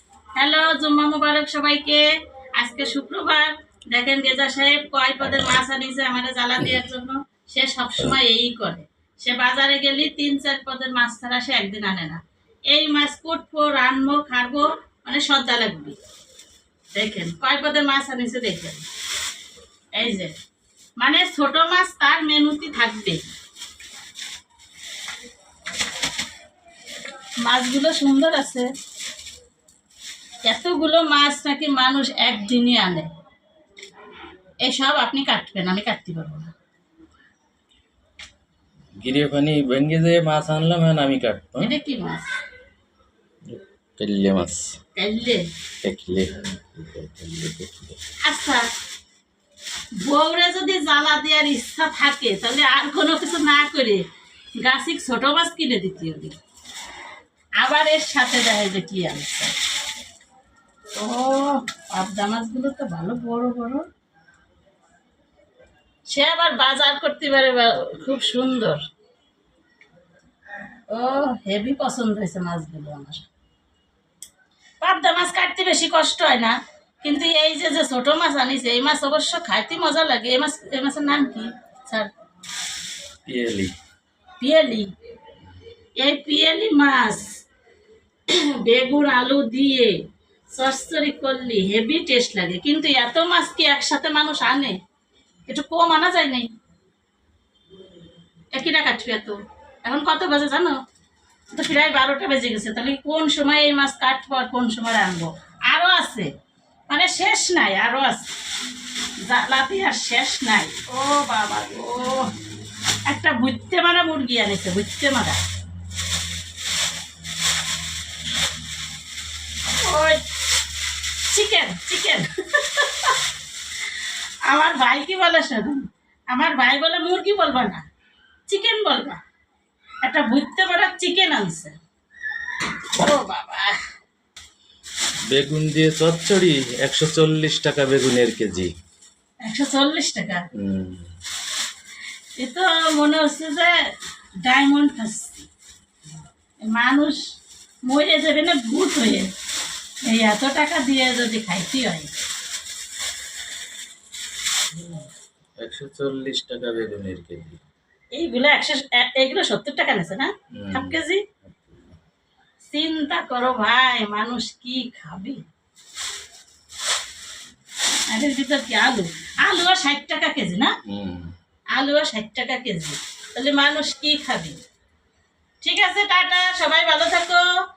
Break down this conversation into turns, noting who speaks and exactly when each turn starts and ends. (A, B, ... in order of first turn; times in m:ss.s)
0:00.4-0:16.0 A
0:16.9-0:18.9 A
0:19.9-0:20.4 A
0:21.0-0:23.3 A
0:27.4-0:28.7 A
0:30.4-0:33.1 A
0:34.6-0:36.5 A
0:39.0-0:41.7 B
0:41.6-0:42.3 A
0:43.5-0:44.8 B
0:44.9-0:45.5 A
0:45.8-0:48.0 B
0:48.2-0:48.6 A
0:50.0-0:54.0 A
0:54.6-0:56.3 A
0:57.6-0:59.5 A
1:00.9-1:03.9 A
1:06.1-1:08.8 A
1:10.9-1:13.3 A
1:14.8-1:22.1 A
1:23.2-1:23.7 B
1:24.4-1:24.9 A
1:26.0-1:27.3 A
1:28.3-1:30.0 A
1:30.5-1:34.8 A
1:35.5-1:36.5 A
1:38.5-1:40.8 A
1:41.5-1:46.3 A
1:46.9-1:48.3 A
1:49.2-1:52.3 A
1:53.1-1:55.4 A
1:59.8-2:00.2 A
2:01.3-2:03.2 A
2:04.5-2:07.8 A
2:08.5-2:09.2 A
2:10.0-2:11.7 A
2:13.0-2:13.8 A
2:15.3-2:18.7 B
2:19.4-2:20.4 A
2:20.5-2:21.1 B
2:22.4-2:23.8 A
2:24.4-2:25.5 A
2:26.6-2:27.2 A
2:27.8-2:29.3 A
2:30.0-2:32.1 A
2:35.6-2:37.6 B
2:38.1-2:41.2 A
2:40.6-2:41.9 B
2:42.7-2:45.4 A
2:48.1-2:50.7 A
2:50.9-2:51.3 B
2:51.7-2:54.6 A
2:55.6-2:57.4 A